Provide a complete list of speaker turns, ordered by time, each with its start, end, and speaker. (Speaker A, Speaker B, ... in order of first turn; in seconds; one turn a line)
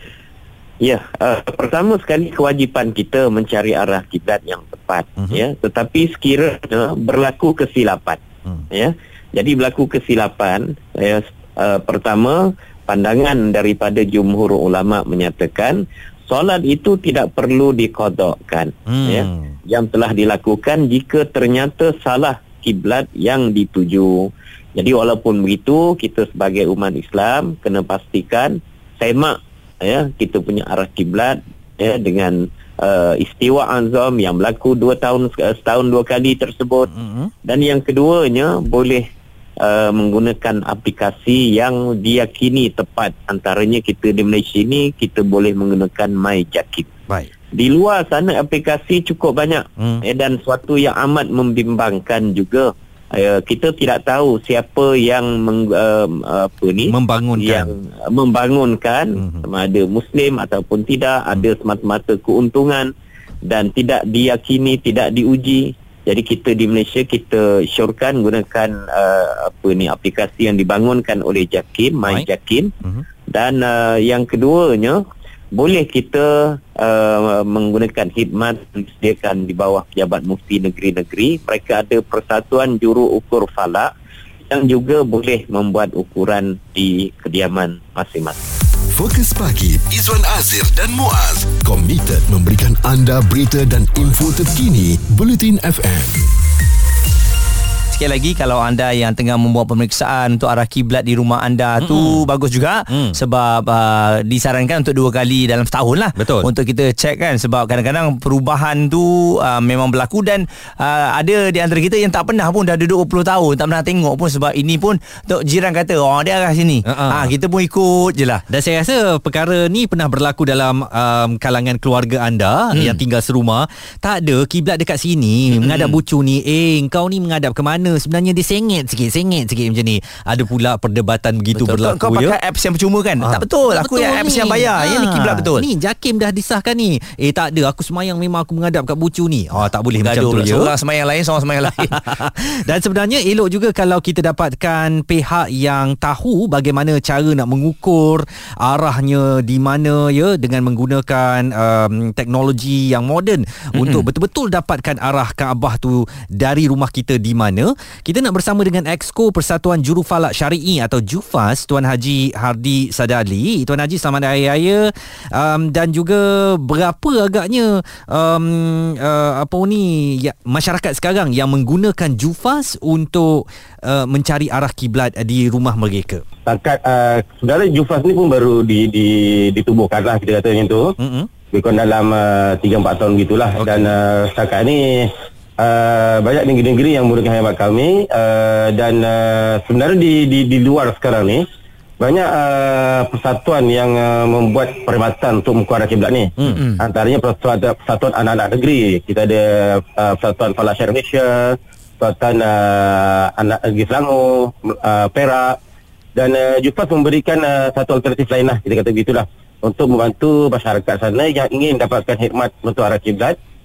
Speaker A: 0.8-36.9
Speaker B: 18.9-19.6
Speaker B: 36.9-37.3
Speaker A: 37.5-39.1
Speaker A: 39.6-46.9
Speaker A: 47.5-62.9
Speaker B: 56.9-57.7
Speaker B: 59.2-59.5
Speaker A: 63.5-72.7
Speaker A: 73.3-83.9
Speaker A: 84.5-88.4
Speaker C: 88.9-96.3
Speaker D: 97.9-118.4
Speaker B: 101.8-102.3
Speaker B: 102.9-103.2
Speaker B: 106.2-106.5
Speaker B: 116.9-117.3
Speaker B: 118.5-132.4
Speaker D: 125.6-126.0
Speaker D: 131.5-135.7
Speaker B: 133.2-140.7
Speaker D: 140.0-142.1
Speaker B: 141.8-176.2
Speaker D: 153.8-154.0
Speaker E: 176.5-180.9
Speaker B: 181.0-181.3
Speaker E: 181.5-191.4
Speaker B: 183.6-183.9
Speaker E: 192.0-205.6
Speaker D: 196.5-196.8
Speaker E: 206.2-213.4